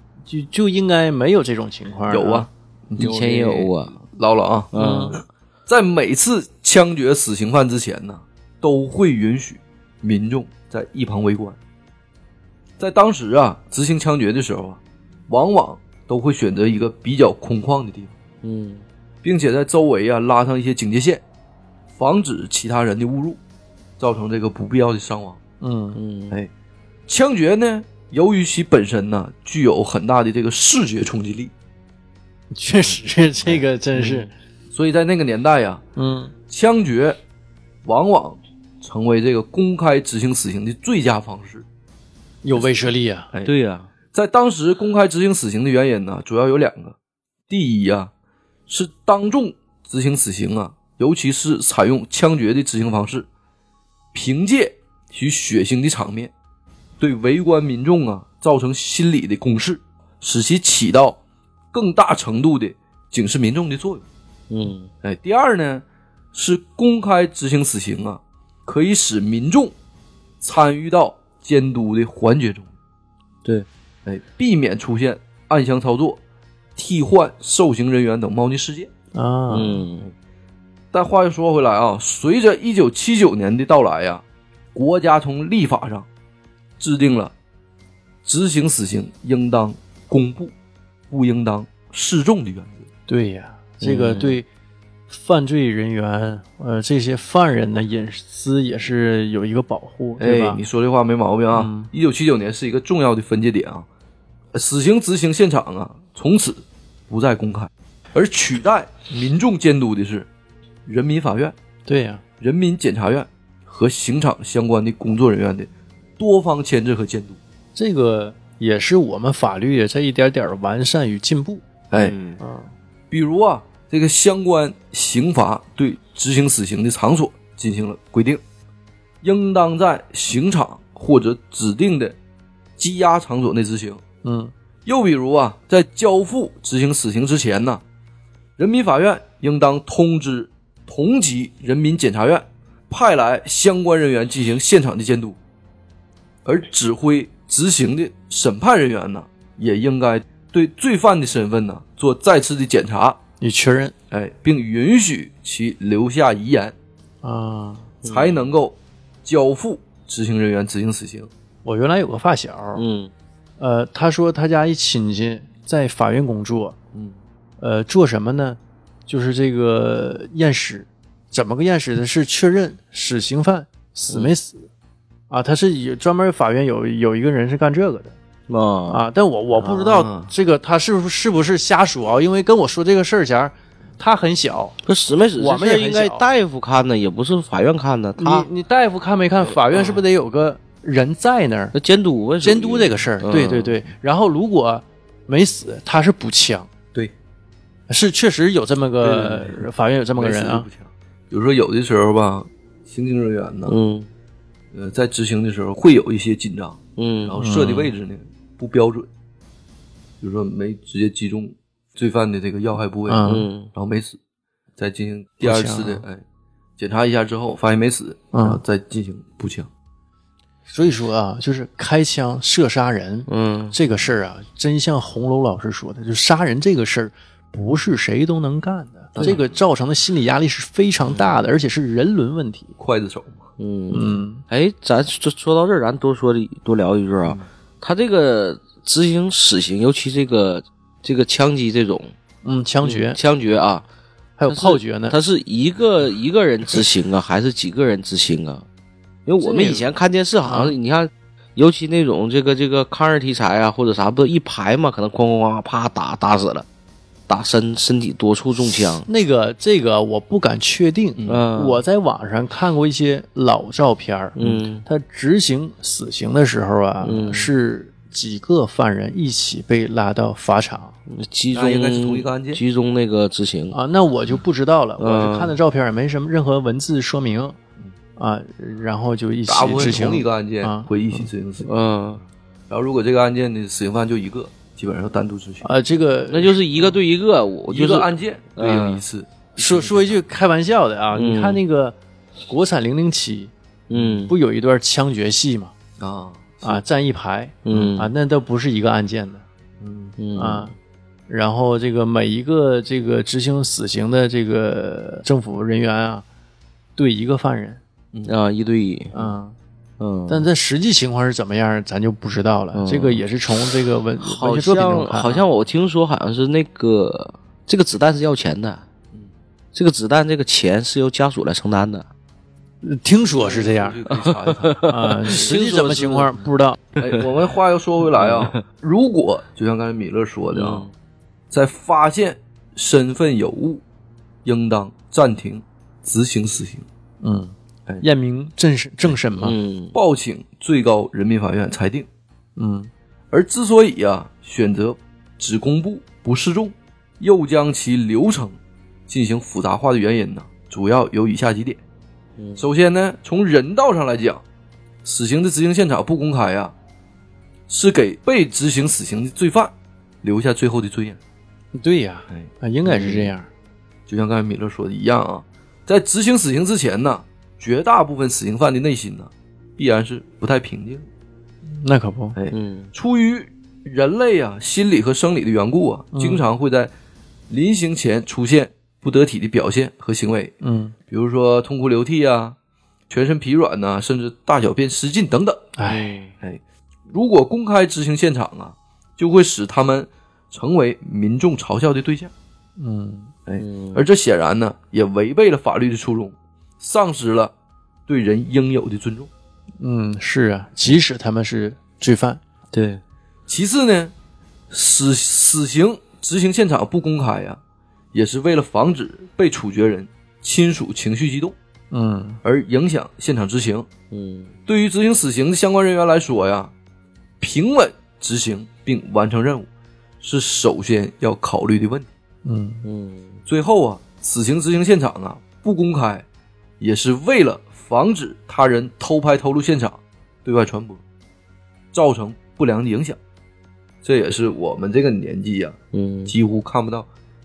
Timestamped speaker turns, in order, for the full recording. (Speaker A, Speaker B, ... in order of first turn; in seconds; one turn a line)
Speaker A: 0.2-2.5
Speaker B: 2.1-4.7
Speaker C: 3.0-4.0
Speaker C: 4.7-5.2
Speaker A: 4.7-5.2
Speaker B: 5.7-11.6
Speaker B: 12.8-18.1
Speaker C: 18.4-18.8
Speaker B: 19.2-21.2
Speaker B: 21.9-23.4
Speaker B: 24.0-25.4
Speaker A: 25.6-26.0
Speaker C: 25.9-26.4
Speaker B: 27.1-31.5
Speaker A: 32.5-34.3
Speaker B: 34.7-35.8
Speaker A: 36.0-36.3
Speaker B: 36.5-37.2
Speaker B: 37.8-41.6
Speaker A: 42.4-43.3
Speaker B: 42.5-43.5
Speaker C: 43.4-43.9
Speaker B: 44.1-47.0
Speaker B: 47.5-48.1
Speaker B: 48.7-53.3
Speaker B: 54.1-56.3
Speaker B: 57.0-61.2
Speaker B: 61.7-64.0
Speaker C: 64.5-64.9
Speaker B: 65.0-69.7
Speaker B: 70.4-72.7
Speaker B: 74.0-76.2
Speaker B: 76.8-78.9
Speaker A: 79.1-79.8
Speaker C: 79.5-80.0
Speaker B: 80.9-86.1
Speaker B: 86.8-87.3
Speaker B: 88.2-90.5
Speaker B: 91.1-92.9
Speaker A: 93.1-94.5
Speaker C: 93.8-94.4
Speaker A: 95.1-100.6
Speaker B: 100.2-103.9
Speaker A: 101.5-101.9
Speaker B: 104.5-110.3
Speaker B: 110.8-111.5
Speaker A: 111.8-112.2
Speaker B: 112.4-117.4
Speaker A: 117.7-121.6
Speaker B: 121.9-122.2
Speaker C: 122.0-122.4
Speaker A: 122.4-122.7
Speaker B: 123.1-128.4
Speaker B: 129.2-132.2
Speaker B: 132.8-134.0
Speaker A: 134.2-134.5
Speaker B: 134.8-137.8
Speaker B: 138.6-145.4
Speaker B: 146.4-153.2
Speaker A: 153.4-153.9
Speaker B: 154.1-156.7
Speaker A: 157.2-157.9
Speaker C: 158.0-158.3
Speaker B: 158.0-161.3
Speaker A: 161.6-162.8
Speaker C: 162.8-163.1
Speaker A: 163.6-166.8
Speaker A: 167.6-174.7
Speaker A: 175.3-178.1
Speaker C: 178.5-179.0
Speaker A: 178.9-184.8
Speaker B: 179.9-180.3
Speaker C: 184.8-188.5
Speaker A: 185.3-186.2
Speaker A: 188.2-191.7
Speaker C: 191.7-193.7
Speaker A: 192.4-196.7
Speaker A: 197.9-200.7
Speaker C: 199.0-199.5
Speaker B: 200.2-203.8
Speaker C: 203.7-204.1
Speaker B: 204.7-209.1
Speaker C: 207.0-207.7
Speaker A: 207.4-207.9
Speaker B: 210.2-214.2
Speaker A: 213.1-213.5
Speaker C: 213.2-213.7
Speaker B: 214.8-216.2
Speaker A: 215.4-216.0
Speaker B: 216.8-219.7
Speaker A: 218.3-218.6
Speaker A: 220.7-232.8
Speaker C: 223.3-223.7
Speaker B: 229.2-229.6
Speaker B: 232.8-233.4
Speaker C: 233.6-242.1
Speaker A: 233.9-234.4
Speaker A: 242.4-243.2
Speaker C: 242.8-243.8
Speaker A: 244.4-245.2
Speaker C: 244.5-248.6
Speaker C: 249.2-256.6
Speaker A: 249.4-249.8
Speaker A: 250.4-250.8
Speaker C: 257.3-259.1
Speaker A: 259.1-270.9
Speaker B: 261.2-261.5
Speaker C: 261.3-261.8
Speaker C: 264.4-264.8
Speaker C: 267.0-267.5
Speaker C: 271.1-273.8
Speaker B: 271.5-272.6
Speaker A: 273.7-277.6
Speaker C: 275.0-275.6
Speaker A: 278.2-281.2
Speaker B: 279.5-281.7
Speaker C: 279.6-280.0
Speaker C: 281.6-282.2
Speaker B: 282.7-285.7
Speaker A: 285.6-286.9
Speaker C: 286.3-289.0
Speaker B: 287.7-290.1
Speaker A: 289.6-291.9
Speaker C: 291.1-291.6
Speaker A: 292.5-293.5
Speaker C: 293.9-294.3
Speaker B: 293.9-294.2
Speaker A: 294.3-295.7
Speaker B: 296.0-296.8
Speaker A: 296.6-299.4
Speaker C: 297.6-298.1
Speaker B: 299.8-300.2
Speaker C: 300.2-300.7
Speaker A: 300.4-300.7
Speaker A: 301.3-306.2
Speaker A: 307.0-307.8
Speaker C: 308.2-309.1
Speaker A: 309.1-309.6
Speaker C: 310.0-310.5
Speaker A: 310.3-315.4
Speaker C: 312.7-313.2
Speaker C: 314.2-318.8
Speaker C: 319.7-322.1
Speaker A: 322.8-324.0
Speaker B: 323.3-326.0
Speaker C: 324.1-326.3
Speaker A: 324.9-326.8
Speaker B: 327.0-330.9
Speaker C: 328.2-328.6
Speaker C: 330.5-330.9
Speaker B: 331.5-333.8
Speaker B: 334.4-336.9
Speaker A: 337.2-339.6
Speaker C: 339.4-339.9
Speaker B: 339.9-342.1
Speaker A: 342.6-342.9
Speaker B: 343.3-351.8
Speaker C: 352.4-352.6
Speaker B: 352.6-354.4
Speaker B: 355.0-356.7
Speaker B: 357.7-361.2
Speaker A: 361.7-363.5
Speaker C: 362.9-363.3
Speaker B: 364.1-371.1
Speaker A: 371.6-372.4
Speaker B: 372.4-376.9
Speaker C: 372.5-372.9
Speaker A: 376.1-376.4
Speaker B: 377.5-380.5
Speaker A: 380.6-380.9
Speaker B: 381.1-382.6
Speaker B: 383.1-385.7
Speaker A: 385.8-386.3
Speaker C: 385.9-386.3
Speaker B: 386.4-392.3
Speaker A: 392.8-393.3
Speaker B: 393.5-397.5
Speaker C: 393.6-394.0
Speaker B: 398.1-399.3
Speaker A: 399.8-402.4
Speaker C: 402.7-403.0
Speaker B: 403.5-404.1
Speaker B: 404.7-407.6
Speaker B: 408.1-411.6
Speaker A: 411.9-412.4
Speaker B: 412.4-413.9
Speaker C: 414.1-414.5
Speaker B: 414.7-416.7
Speaker B: 417.4-419.7
Speaker B: 420.2-422.1
Speaker A: 422.4-422.8
Speaker C: 422.8-423.4
Speaker B: 423.5-426.2
Speaker B: 426.8-431.0
Speaker B: 431.9-433.2
Speaker B: 434.0-437.1
Speaker C: 435.9-436.3